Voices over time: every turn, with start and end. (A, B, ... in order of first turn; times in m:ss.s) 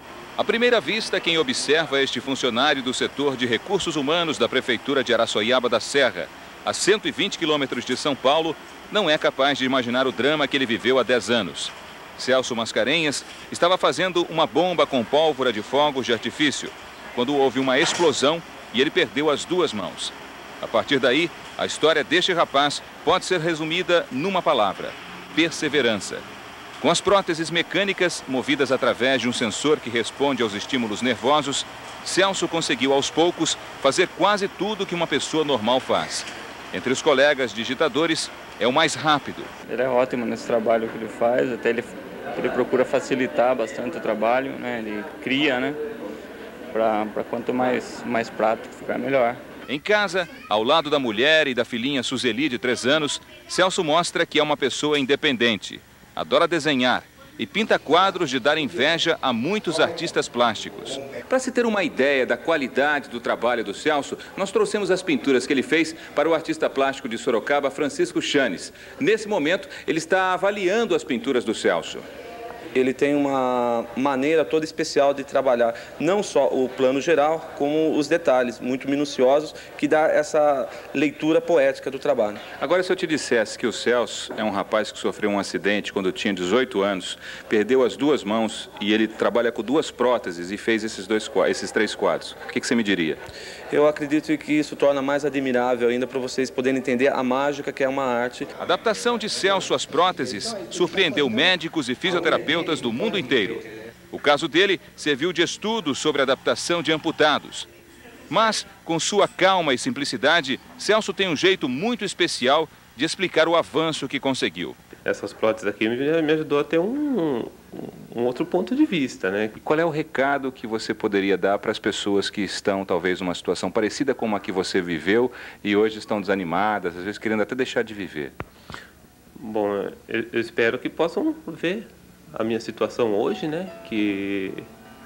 0:00.4-0:26.2 A
0:26.8-0:39.5 A
0:39.7-0:45.8 B
0:46.7-0:49.4 B
0:49.7-1:12.0 A
1:12.8-1:22.4 C
1:22.6-1:33.2 A
1:33.7-1:38.5 C
1:38.6-1:47.7 A
1:48.3-1:54.8 A
1:55.0-1:59.6 D
1:59.6-2:08.3 A
2:09.4-2:14.7 D